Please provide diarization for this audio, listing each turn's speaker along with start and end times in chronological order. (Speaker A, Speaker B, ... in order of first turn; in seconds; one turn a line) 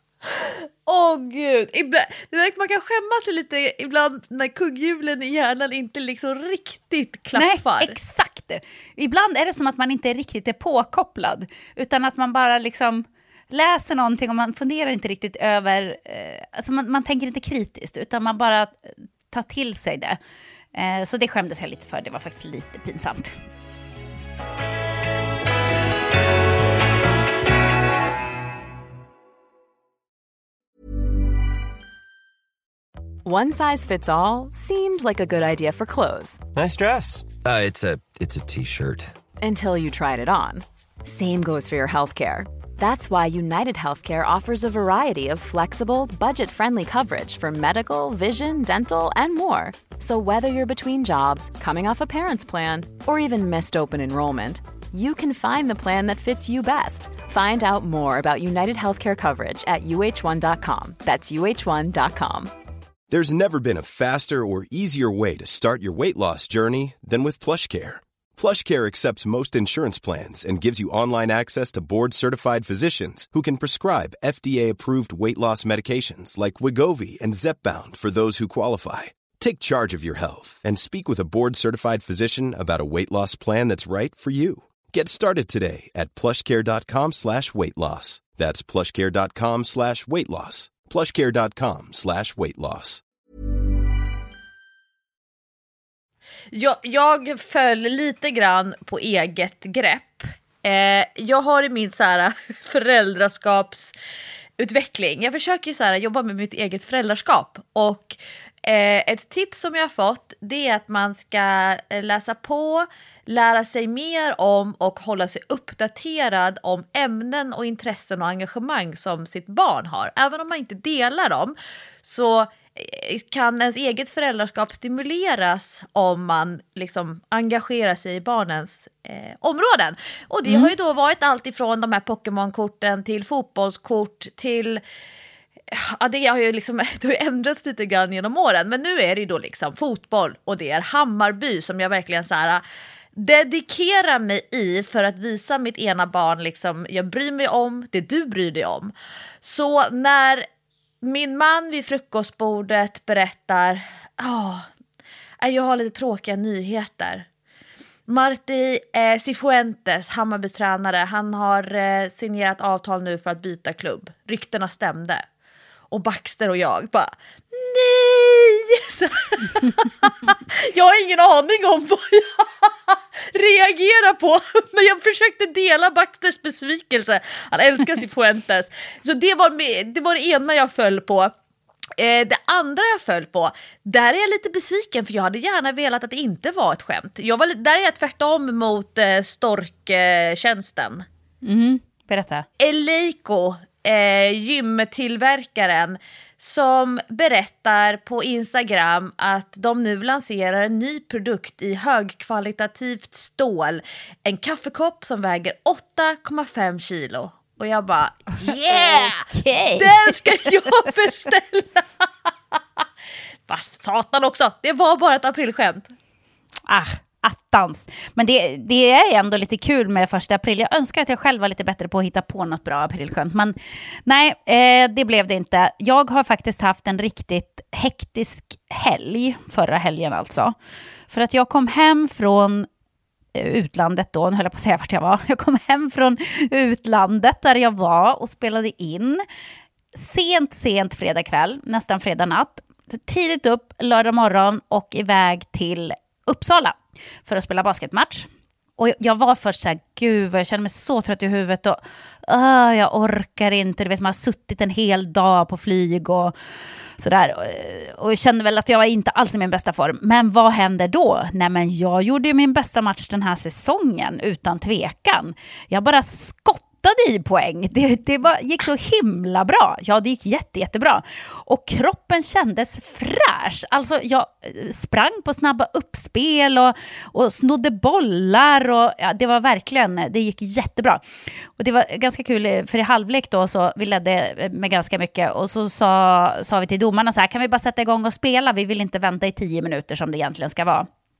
Speaker A: 0.3-8.0
Speaker B: 7.3-20.2
Speaker B: 20.7-23.3
Speaker C: 33.2-36.4
Speaker D: 36.5-39.1
Speaker C: 39.4-62.5
Speaker E: 63.1-93.0
Speaker A: 96.5-103.9
Speaker A: 104.6-134.8
Speaker B: 130.5-130.7
Speaker A: 135.7-142.6
Speaker A: 143.1-150.5
Speaker A: 151.0-154.7
Speaker A: 155.4-157.3
Speaker A: 158.1-165.2
Speaker A: 165.9-181.3
Speaker A: 181.9-191.1
Speaker B: 191.4-192.4
Speaker A: 192.6-212.8
Speaker B: 208.4-210.7
Speaker A: 213.5-215.9
Speaker B: 216.7-230.5
Speaker B: 231.1-232.7
Speaker B: 233.3-239.2
Speaker B: 239.9-256.3
Speaker B: 257.0-281.0
Speaker B: 281.6-290.9